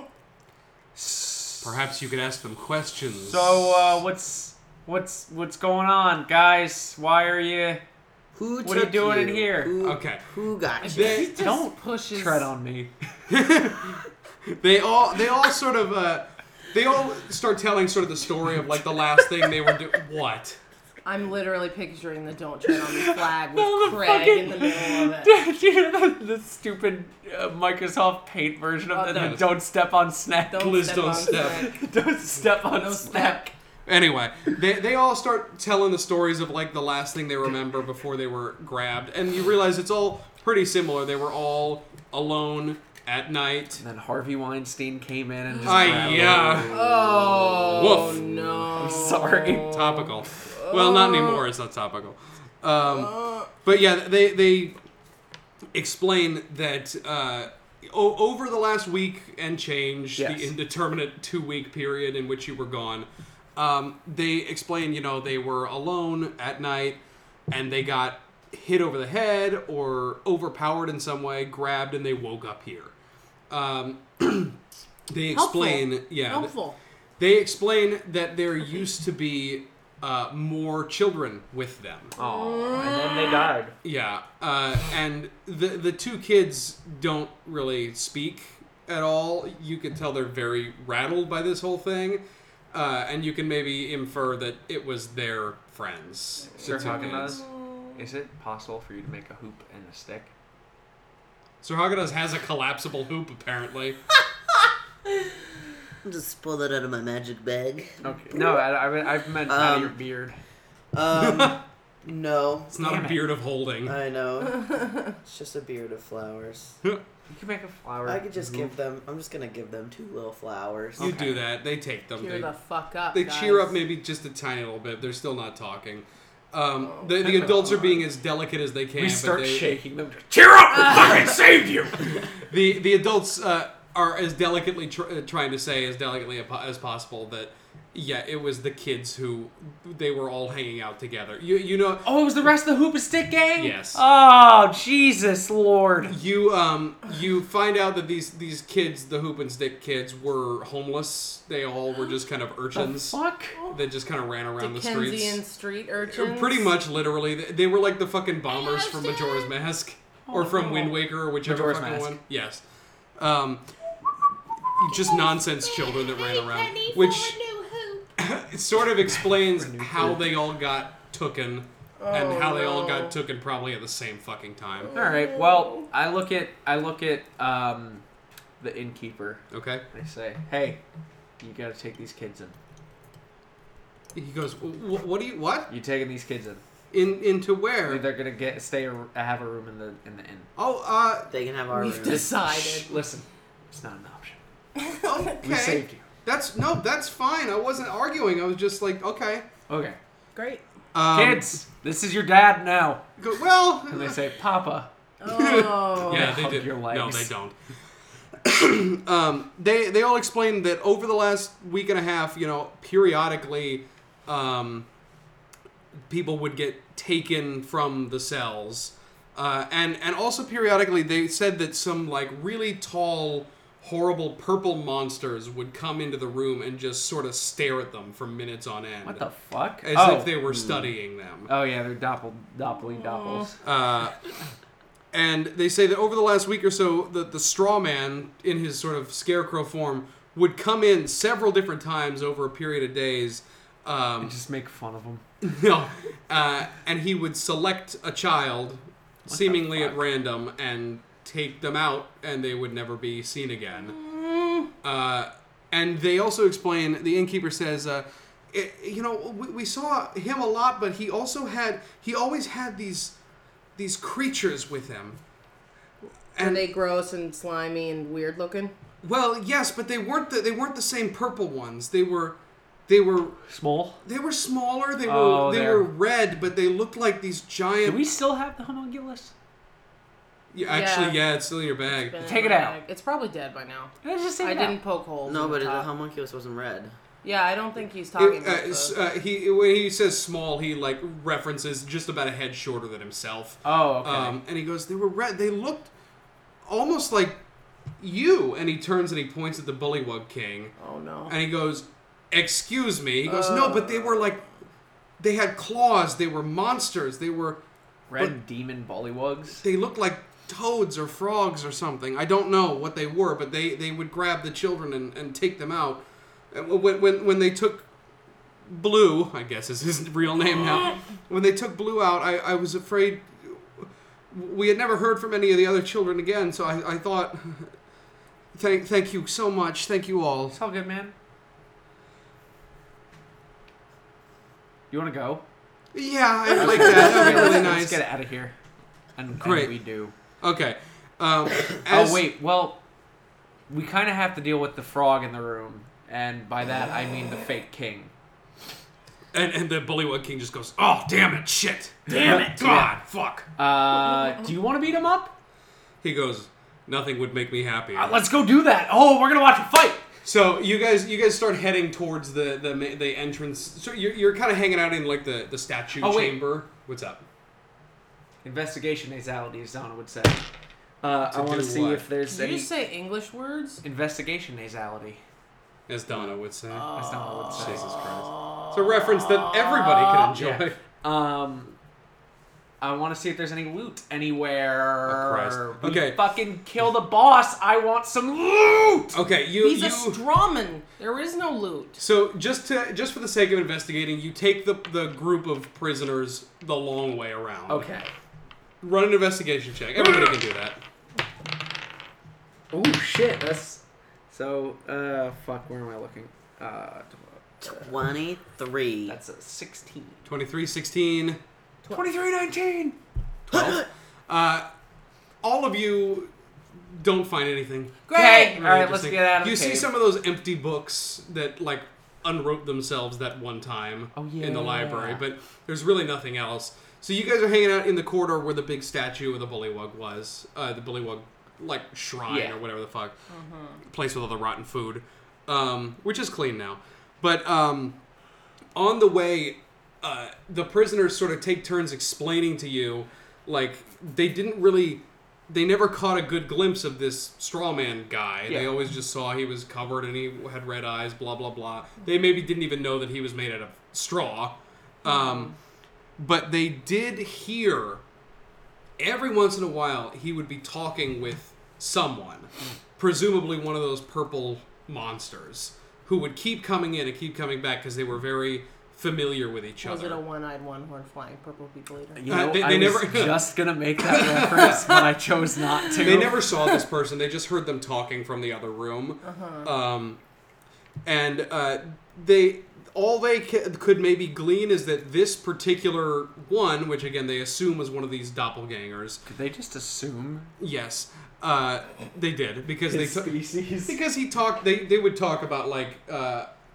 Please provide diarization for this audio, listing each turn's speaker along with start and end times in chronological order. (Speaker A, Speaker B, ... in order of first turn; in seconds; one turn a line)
Speaker A: 0.9-1.7
Speaker B: 1.6-4.0
Speaker A: 3.2-7.8
Speaker C: 8.3-11.3
Speaker A: 8.6-9.8
Speaker B: 9.8-10.2
Speaker D: 10.8-12.5
Speaker B: 10.9-11.3
Speaker A: 11.4-12.9
Speaker B: 13.3-14.0
Speaker B: 14.5-20.6
Speaker D: 21.1-25.3
Speaker A: 22.7-33.5
Speaker D: 28.9-29.5
Speaker B: 29.1-29.5
Speaker D: 30.5-31.8
Speaker B: 30.6-31.7
Speaker D: 32.7-33.4
Speaker B: 33.9-43.8
Speaker A: 43.8-47.5
Speaker B: 45.6-46.9
Speaker D: 46.7-51.4
Speaker B: 47.6-48.5
Speaker A: 48.8-49.8
Speaker B: 49.7-54.8
Speaker D: 52.8-53.5
Speaker B: 55.7-72.9
Speaker A: 60.2-60.5
Speaker B: 73.5-74.6
Speaker B: 75.1-76.5
Speaker D: 75.3-76.8
Speaker B: 77.2-82.1
Speaker D: 82.2-83.5
Speaker A: 82.2-83.8
Speaker B: 83.8-97.4
Speaker A: 96.6-100.3
Speaker D: 96.6-98.0
Speaker B: 101.6-104.0
Speaker C: 106.0-108.6
Speaker A: 108.0-110.4
Speaker C: 109.4-110.0
Speaker C: 110.9-112.7
Speaker B: 111.2-111.6
Speaker B: 112.7-114.0
Speaker A: 112.8-113.3
Speaker C: 113.8-116.8
Speaker A: 117.3-118.7
Speaker C: 118.0-121.2
Speaker A: 121.0-121.4
Speaker B: 121.0-122.5
Speaker D: 122.2-123.8
Speaker B: 123.1-129.7
Speaker A: 127.2-128.0
Speaker A: 129.0-132.3
Speaker D: 130.7-131.3
Speaker B: 132.4-142.1
Speaker A: 142.0-146.2
Speaker B: 143.6-144.0
Speaker B: 146.1-155.4
Speaker A: 152.8-153.6
Speaker D: 154.6-156.7
Speaker B: 156.1-162.6
Speaker D: 158.5-159.5
Speaker A: 160.3-162.2
Speaker B: 163.2-163.7
Speaker B: 164.8-167.4
Speaker D: 164.9-168.1
Speaker B: 168.2-174.9
Speaker A: 169.2-170.3
Speaker D: 172.0-173.2
Speaker D: 174.8-175.9
Speaker A: 174.9-178.0
Speaker A: 178.6-180.8
Speaker B: 179.5-179.8
Speaker A: 181.4-182.6
Speaker B: 184.2-185.7
Speaker A: 185.7-186.6
Speaker B: 186.9-188.0
Speaker A: 187.9-190.5
Speaker B: 190.6-191.3
Speaker C: 191.3-192.3
Speaker D: 191.7-192.9
Speaker A: 192.1-194.4
Speaker D: 194.9-195.1
Speaker B: 195.0-199.5
Speaker A: 195.4-196.0
Speaker A: 199.7-200.0
Speaker D: 200.3-200.6
Speaker B: 200.9-201.5
Speaker A: 201.1-203.1
Speaker B: 203.2-204.2
Speaker A: 203.9-204.9
Speaker D: 205.2-206.3
Speaker B: 205.3-207.6
Speaker A: 206.0-207.3
Speaker B: 208.4-214.9
Speaker B: 216.1-229.3
Speaker A: 229.1-230.8
Speaker B: 229.8-231.5
Speaker A: 231.5-233.6
Speaker D: 232.9-233.5
Speaker B: 233.6-234.2
Speaker B: 235.1-244.4
Speaker A: 244.2-245.2
Speaker B: 245.4-254.0
Speaker A: 249.3-250.0
Speaker D: 253.9-254.7
Speaker B: 254.8-263.2
Speaker B: 263.8-265.2
Speaker B: 266.4-266.6
Speaker D: 266.4-268.8
Speaker B: 269.0-272.4
Speaker B: 272.9-273.4
Speaker A: 273.4-274.0
Speaker B: 274.1-278.0
Speaker A: 275.0-275.9
Speaker A: 277.9-279.3
Speaker B: 280.5-282.2
Speaker D: 280.7-281.2
Speaker D: 281.9-285.9
Speaker A: 282.2-282.8
Speaker A: 284.0-284.8
Speaker C: 285.2-286.9
Speaker D: 287.2-289.0
Speaker B: 288.2-295.9
Speaker A: 293.6-294.4
Speaker B: 296.6-297.4
Speaker B: 298.0-300.7
Speaker D: 300.8-301.3
Speaker B: 301.3-304.4
Speaker D: 303.3-304.4
Speaker B: 305.2-307.6
Speaker A: 308.1-309.6
Speaker B: 309.6-317.9
Speaker B: 318.7-327.7
Speaker B: 328.5-330.6
Speaker A: 330.5-331.1
Speaker A: 334.9-335.4
Speaker B: 335.9-338.0
Speaker A: 336.6-338.6
Speaker A: 339.2-340.1
Speaker B: 339.4-339.7
Speaker B: 340.4-342.3
Speaker A: 341.9-342.8
Speaker A: 343.7-348.1
Speaker B: 349.3-353.5
Speaker A: 352.1-353.0
Speaker A: 353.6-355.3
Speaker B: 356.0-358.2
Speaker A: 357.9-360.0
Speaker B: 360.2-367.2
Speaker A: 366.0-366.4
Speaker A: 368.4-370.4
Speaker A: 371.0-372.7
Speaker B: 371.3-372.1
Speaker D: 372.3-373.8
Speaker A: 373.8-375.2
Speaker B: 375.9-376.9
Speaker A: 376.1-376.4
Speaker D: 376.7-380.3
Speaker A: 376.9-378.3
Speaker B: 377.6-380.8
Speaker A: 380.4-381.7
Speaker A: 382.8-389.2
Speaker B: 385.1-386.2
Speaker B: 389.1-390.2
Speaker D: 389.6-392.0
Speaker B: 392.0-397.9
Speaker A: 397.7-398.1
Speaker B: 398.8-400.8
Speaker A: 400.0-400.4
Speaker A: 402.7-407.8
Speaker C: 407.6-409.2
Speaker A: 409.1-410.2
Speaker B: 410.2-411.4
Speaker A: 411.9-413.0
Speaker B: 413.5-414.7
Speaker C: 413.5-413.8
Speaker B: 415.4-416.3
Speaker B: 416.9-418.1
Speaker D: 418.1-418.6
Speaker A: 418.1-419.9
Speaker B: 418.6-433.1
Speaker A: 424.1-425.2
Speaker A: 432.3-432.6
Speaker D: 433.3-433.8
Speaker B: 433.9-438.0
Speaker B: 438.8-455.6
Speaker A: 448.5-448.7
Speaker D: 455.1-455.4
Speaker B: 456.2-458.0
Speaker B: 459.0-470.2
Speaker D: 469.8-472.2
Speaker A: 472.1-476.5
Speaker B: 472.3-473.5
Speaker B: 474.0-475.0
Speaker B: 476.0-480.2
Speaker D: 479.2-479.7
Speaker B: 481.1-489.2
Speaker A: 489.3-490.5
Speaker B: 490.6-493.4
Speaker A: 492.9-494.0
Speaker B: 493.9-496.5